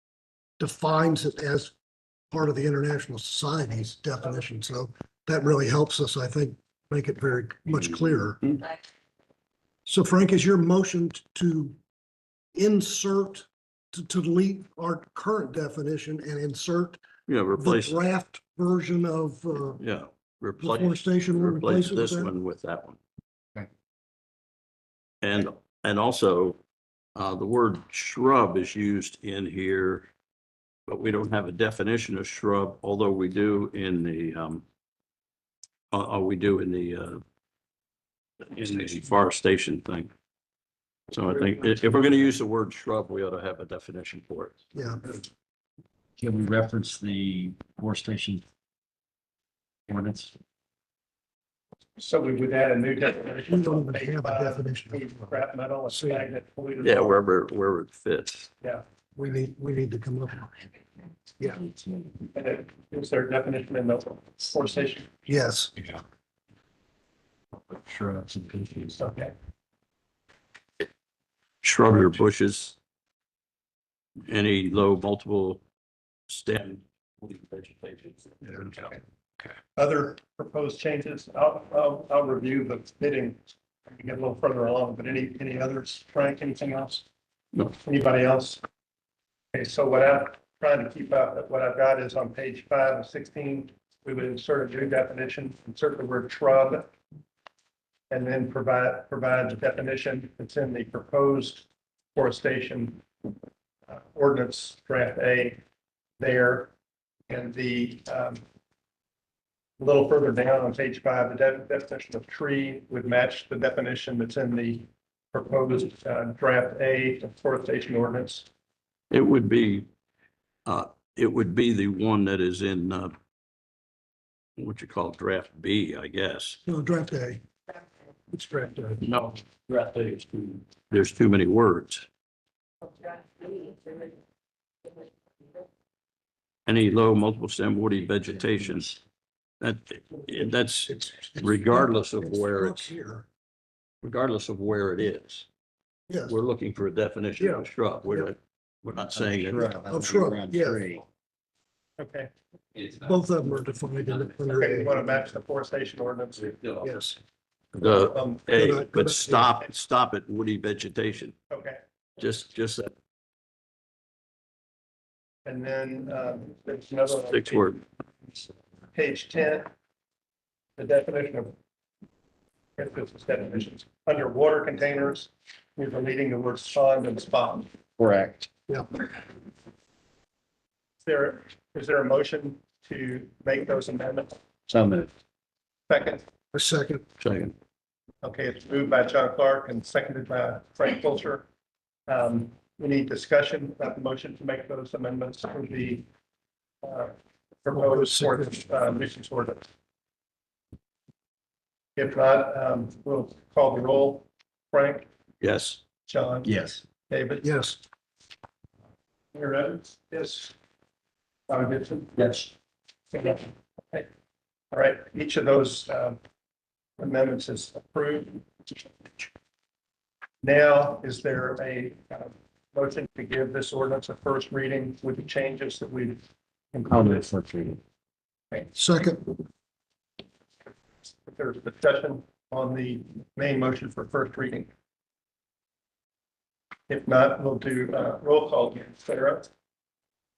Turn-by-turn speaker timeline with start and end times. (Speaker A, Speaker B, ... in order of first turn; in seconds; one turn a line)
Speaker A: 0.6-1.7
Speaker A: 2.3-8.4
Speaker A: 9.8-11.8
Speaker A: 12.5-17.0
Speaker B: 17.3-18.0
Speaker A: 17.5-19.8
Speaker B: 19.8-23.0
Speaker A: 20.6-22.3
Speaker B: 25.2-26.6
Speaker B: 27.1-30.1
Speaker B: 30.9-34.6
Speaker B: 35.9-37.2
Speaker B: 38.5-40.1
Speaker B: 41.1-44.5
Speaker A: 44.7-45.0
Speaker C: 46.2-48.4
Speaker C: 49.9-50.3
Speaker D: 52.0-57.2
Speaker A: 53.5-55.4
Speaker A: 55.9-56.2
Speaker B: 56.8-58.5
Speaker A: 59.1-60.5
Speaker A: 61.4-61.7
Speaker D: 62.3-65.1
Speaker A: 65.2-65.7
Speaker C: 67.7-68.9
Speaker D: 69.0-69.3
Speaker B: 71.6-72.8
Speaker B: 74.2-75.6
Speaker B: 76.3-78.8
Speaker D: 79.8-87.0
Speaker D: 87.8-88.6
Speaker D: 89.5-96.9
Speaker D: 98.1-103.0
Speaker D: 103.9-105.6
Speaker D: 106.2-106.7
Speaker D: 107.3-108.4
Speaker D: 109.8-118.5
Speaker B: 119.1-119.9
Speaker B: 120.7-123.1
Speaker B: 124.6-126.6
Speaker A: 126.7-127.4
Speaker A: 128.3-129.0
Speaker B: 129.0-132.1
Speaker B: 136.7-139.0
Speaker B: 139.6-142.9
Speaker A: 140.9-143.2
Speaker B: 144.0-145.5
Speaker A: 146.1-146.3
Speaker B: 146.2-149.7
Speaker A: 147.4-147.6
Speaker C: 149.0-151.1
Speaker A: 149.9-150.8
Speaker D: 152.0-152.3
Speaker A: 153.0-155.1
Speaker D: 154.5-156.5
Speaker A: 156.8-157.2
Speaker B: 157.7-161.3
Speaker D: 158.1-158.4
Speaker A: 158.5-159.5
Speaker D: 161.5-161.8
Speaker B: 162.2-162.9
Speaker D: 165.4-167.8
Speaker B: 167.3-167.8
Speaker D: 168.9-169.7
Speaker D: 170.8-171.5
Speaker D: 172.8-177.7
Speaker C: 178.0-178.5
Speaker D: 181.0-184.4
Speaker C: 184.7-185.1
Speaker D: 185.9-186.2
Speaker A: 186.5-187.0
Speaker B: 187.2-187.5
Speaker D: 188.2-191.4
Speaker D: 192.1-196.1
Speaker D: 196.8-199.6
Speaker A: 197.7-198.5
Speaker D: 201.9-205.1
Speaker B: 205.4-205.8
Speaker D: 206.1-206.5
Speaker C: 206.4-206.8
Speaker D: 207.1-207.5
Speaker A: 207.4-207.8
Speaker D: 209.3-210.5
Speaker D: 211.5-212.5
Speaker D: 213.1-214.1
Speaker D: 214.7-216.2
Speaker D: 217.0-218.4
Speaker D: 220.4-226.2
Speaker D: 226.7-227.2
Speaker C: 226.9-227.8
Speaker A: 228.7-229.3
Speaker D: 231.3-234.7
Speaker D: 236.9-239.5